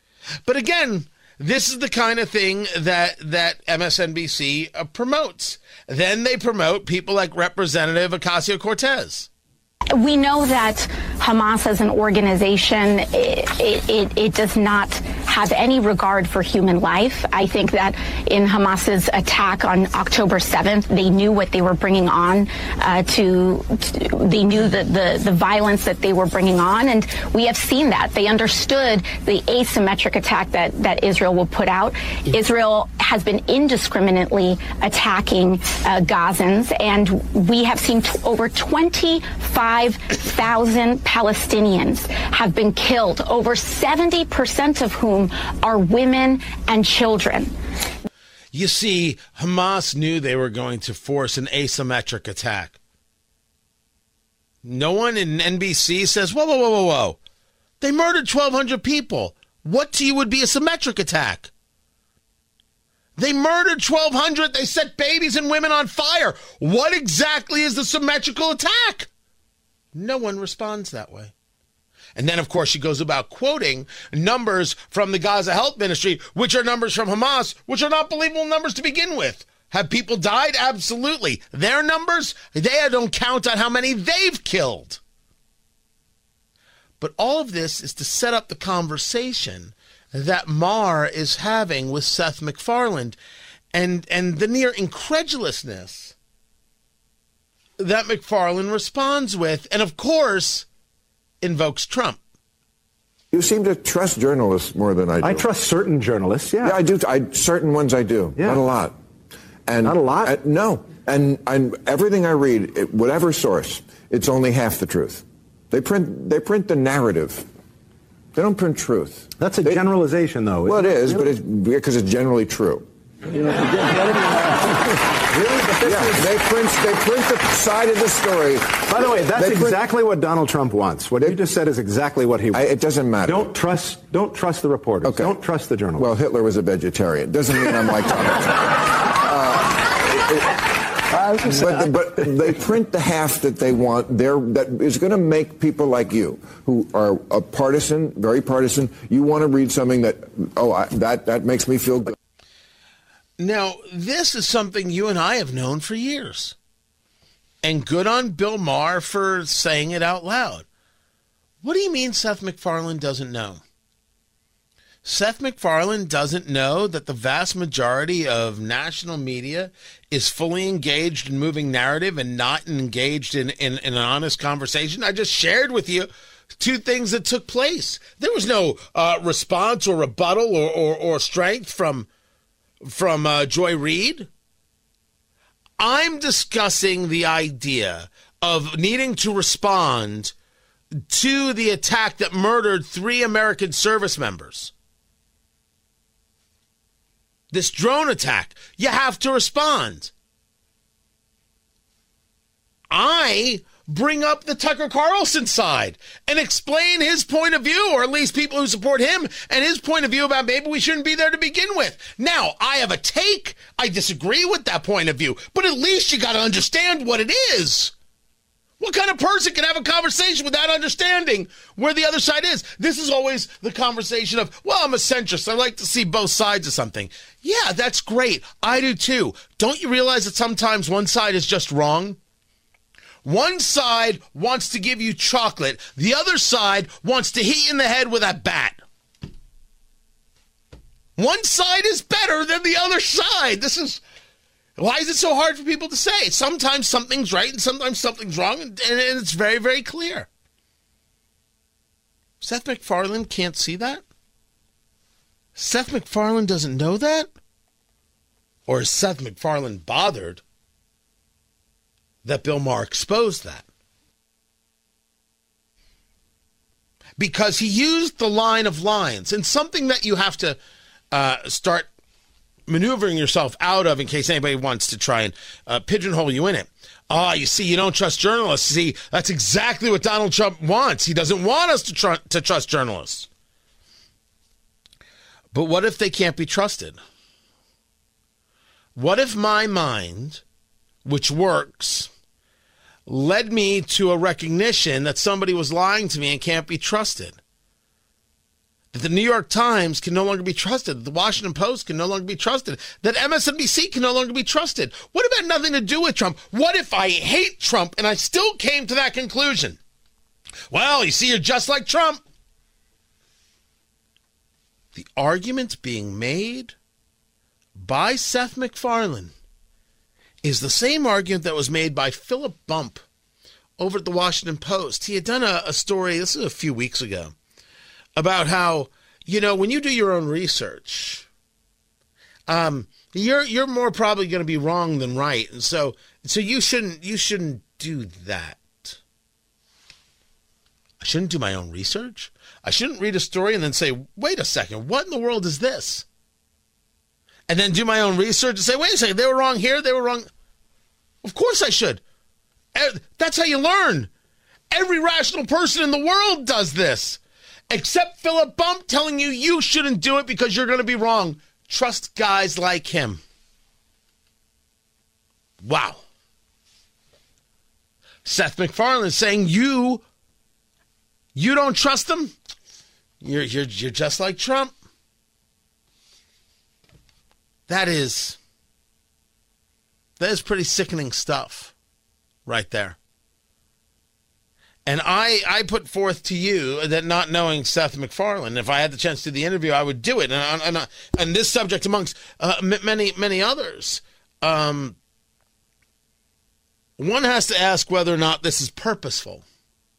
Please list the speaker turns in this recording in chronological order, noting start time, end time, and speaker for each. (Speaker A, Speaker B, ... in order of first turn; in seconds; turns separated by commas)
Speaker A: 0.4-9.3, Speaker B: 9.9-47.5, Speaker A: 48.5-52.8, Speaker A: 54.6-57.2, Speaker A: 57.8-61.5, Speaker A: 63.2-69.1, Speaker A: 70.0-71.3, Speaker A: 72.2-85.0, Speaker A: 87.0-93.2, Speaker A: 93.7-96.2, Speaker A: 97.8-100.7, Speaker A: 101.4-102.2, Speaker C: 103.3-105.5, Speaker D: 105.2-106.8, Speaker C: 106.6-108.9, Speaker D: 108.4-108.6, Speaker C: 109.7-117.5, Speaker D: 109.8-110.3, Speaker C: 118.3-119.8, Speaker D: 119.4-121.2, Speaker C: 120.7-122.8, Speaker D: 123.5-126.3, Speaker C: 125.8-129.8, Speaker D: 128.8-132.7, Speaker C: 132.5-133.5, Speaker D: 133.3-136.1, Speaker C: 135.0-135.4, Speaker C: 135.9-152.2, Speaker A: 153.4-156.6, Speaker A: 157.6-160.7, Speaker A: 161.6-163.6, Speaker A: 165.1-182.1, Speaker A: 182.8-184.3, Speaker A: 185.8-190.3, Speaker A: 191.1-194.7, Speaker A: 197.5-200.1, Speaker A: 202.9-217.9, Speaker A: 218.8-232.2, Speaker A: 233.2-238.8, Speaker A: 241.2-244.0, Speaker A: 244.8-250.3, Speaker A: 252.4-254.0, Speaker A: 255.6-257.3, Speaker A: 258.7-260.4, Speaker A: 262.2-263.7, Speaker A: 267.2-270.6, Speaker A: 271.1-271.9, Speaker A: 272.7-283.3, Speaker A: 285.5-287.0, Speaker A: 288.9-290.4, Speaker A: 291.1-292.1, Speaker A: 293.1-297.4, Speaker A: 298.9-309.8, Speaker A: 310.7-312.2, Speaker A: 314.9-316.8, Speaker A: 317.8-319.3, Speaker A: 320.4-323.0, Speaker A: 323.8-327.4, Speaker A: 328.2-331.3, Speaker A: 332.5-339.0, Speaker A: 341.0-346.1, Speaker A: 347.5-350.3, Speaker A: 351.2-352.0, Speaker A: 352.8-354.1, Speaker A: 354.7-363.2, Speaker A: 365.6-366.0, Speaker A: 368.2-370.0, Speaker A: 371.4-372.3, Speaker A: 373.2-374.7, Speaker A: 377.7-378.4, Speaker A: 380.2-381.8, Speaker A: 382.5-383.0, Speaker A: 384.9-395.0, Speaker A: 397.0-399.4